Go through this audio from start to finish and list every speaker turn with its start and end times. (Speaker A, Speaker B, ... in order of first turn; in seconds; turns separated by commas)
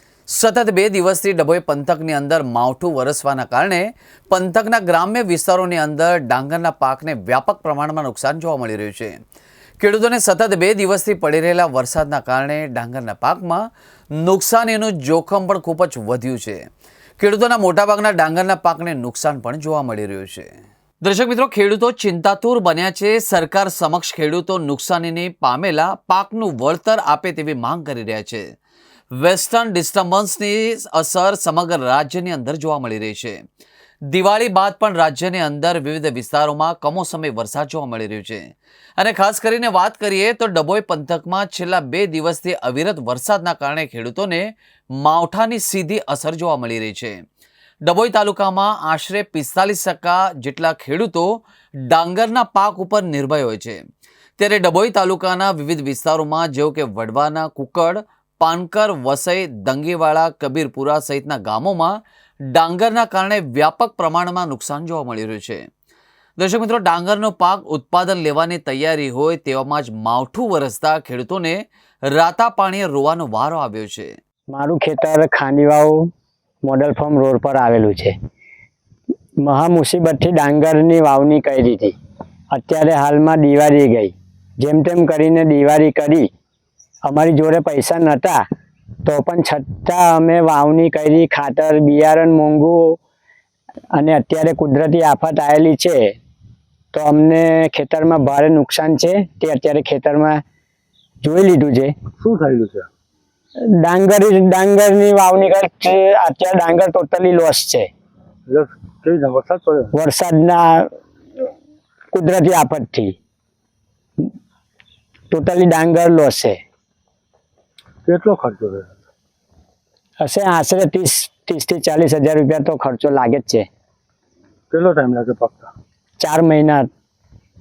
Speaker A: 0.3-9.2, Speaker A: 9.8-16.6, Speaker A: 17.2-20.5, Speaker A: 21.0-28.4, Speaker A: 29.2-33.4, Speaker A: 34.1-38.4, Speaker A: 39.0-44.5, Speaker A: 45.0-47.2, Speaker A: 47.8-53.8, Speaker A: 54.4-62.0, Speaker A: 62.5-65.6, Speaker A: 66.4-74.2, Speaker B: 74.5-76.1, Speaker B: 76.6-78.1, Speaker B: 79.4-81.9, Speaker B: 82.5-86.3, Speaker B: 87.0-88.4, Speaker B: 89.0-93.0, Speaker B: 93.9-96.2, Speaker B: 96.9-100.4, Speaker B: 101.2-101.9, Speaker C: 102.2-102.9, Speaker B: 103.8-107.9, Speaker C: 108.5-109.9, Speaker B: 109.9-110.9, Speaker B: 112.1-113.2, Speaker B: 115.3-116.6, Speaker C: 118.0-118.9, Speaker B: 120.2-123.7, Speaker C: 124.7-125.7, Speaker B: 126.2-126.9